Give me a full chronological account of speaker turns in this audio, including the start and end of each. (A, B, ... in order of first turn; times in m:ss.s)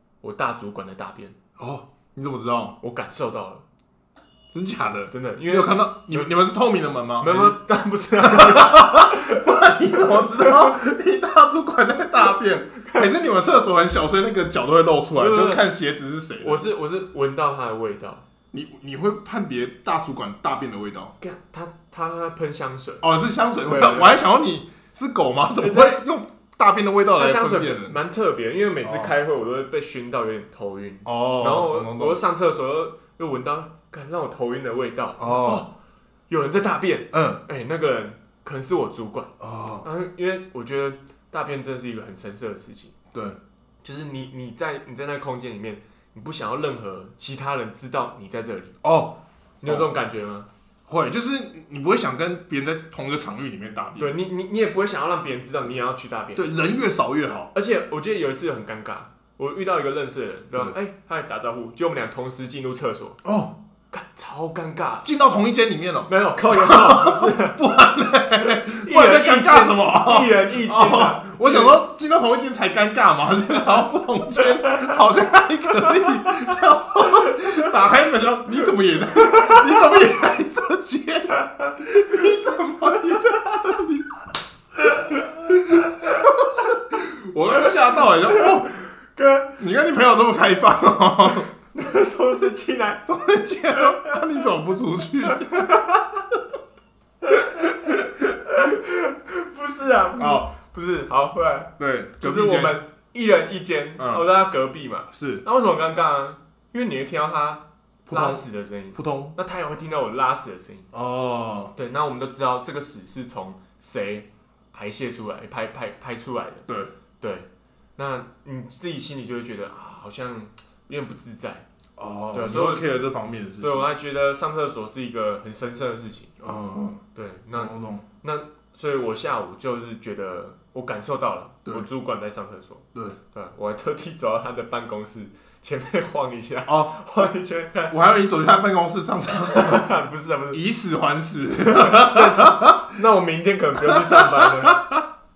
0:00.2-0:01.4 A
0:01.6-0:02.8 B
0:02.8-0:03.6 A
0:04.5-0:07.6 B
0:05.1-0:06.3 A
0:07.2-0:10.7 A
0:08.2-0:16.6 B
0:12.8-0:13.1 A
0:15.2-0:15.6 A
0:16.4-0:18.2 A
0:18.5-0:21.1 B
0:21.2-0:23.0 A
0:23.0-0:28.0 B
0:23.6-0:24.2 A
0:25.6-0:26.0 A
0:27.2-0:35.7 A
0:28.8-0:29.1 B
0:31.0-0:32.2 B
0:35.2-0:35.6 B
0:36.3-0:39.3 A
0:37.1-0:37.4 B
0:39.4-0:39.8 B
0:39.8-0:42.9 A
0:43.1-0:43.4 B
0:43.8-0:48.8 A
0:48.8-0:49.9 B
0:49.6-0:50.5 A
0:50.9-0:54.2 B
0:54.0-0:56.5 A
0:56.3-0:57.5 B
0:57.5-1:03.2 A
1:03.2-1:03.6 B
1:03.9-1:05.1 A
1:05.0-1:24.1 B
1:06.1-1:07.6 A
1:08.5-1:11.8 A
1:24.8-1:26.3 A
1:25.5-1:28.8 B
1:28.3-1:29.6 A
1:29.6-1:31.5 B
1:31.7-1:33.0 A
1:33.1-1:35.8 B
1:33.7-1:34.2 A
1:35.3-1:36.2 A
1:37.2-1:50.9 A
1:40.2-1:40.5 B
1:41.8-1:42.8 B
1:44.0-1:44.2 B
1:45.1-1:45.4 B
1:48.0-1:49.4 B
1:50.9-1:51.7 B
1:51.7-1:56.6 A
1:56.7-1:56.9 B
1:57.2-2:01.6 A
2:02.0-2:03.9 B
2:02.3-2:02.8 A
2:03.6-2:06.3 A
2:06.4-2:07.0 B
2:07.1-2:18.0 A
2:07.6-2:08.0 B
2:16.7-2:17.0 B
2:17.9-2:20.0 B
2:19.4-2:20.6 A
2:20.5-2:22.9 B
2:21.6-2:25.0 A
2:23.8-2:25.0 B